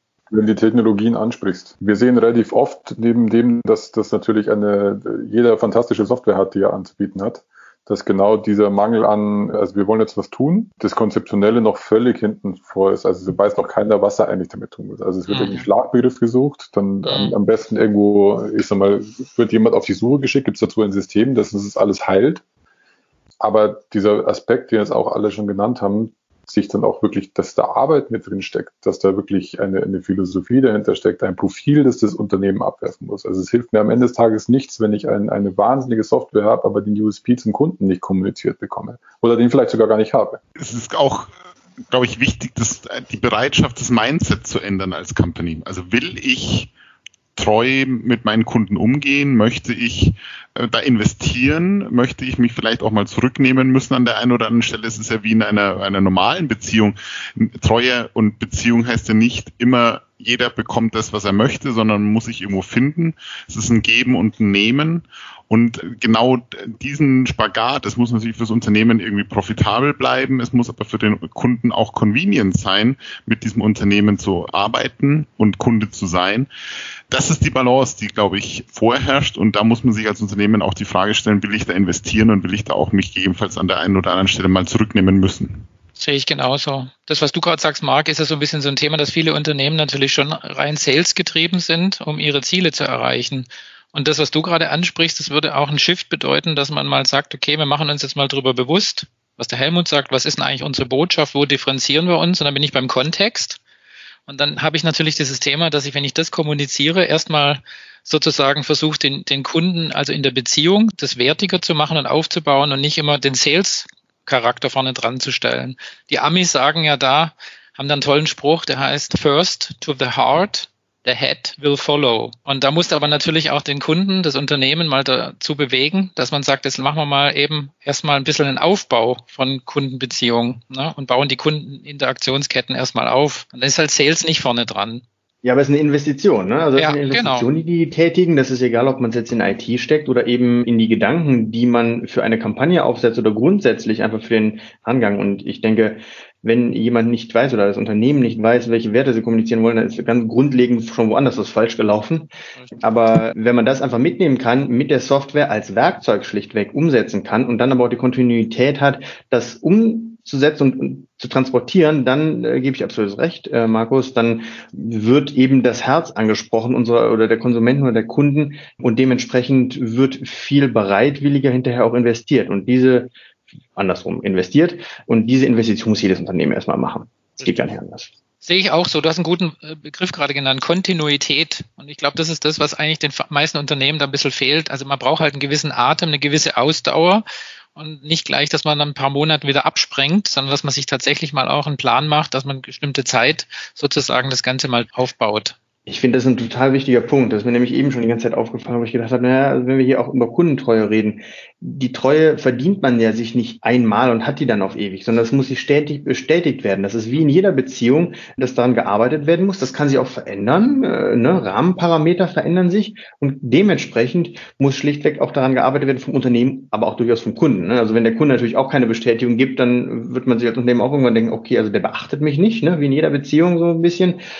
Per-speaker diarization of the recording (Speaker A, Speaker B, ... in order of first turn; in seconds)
Speaker A: 0.3-22.4, 23.4-40.4
Speaker B: 15.3-15.7, 17.0-17.3, 86.0-103.6, 104.3-135.0, 136.7-137.5, 178.4-195.5
Speaker C: 40.6-41.3, 41.9-46.7, 47.4-76.5, 77.1-85.7
Speaker D: 135.4-173.1, 173.8-178.1, 195.9-224.2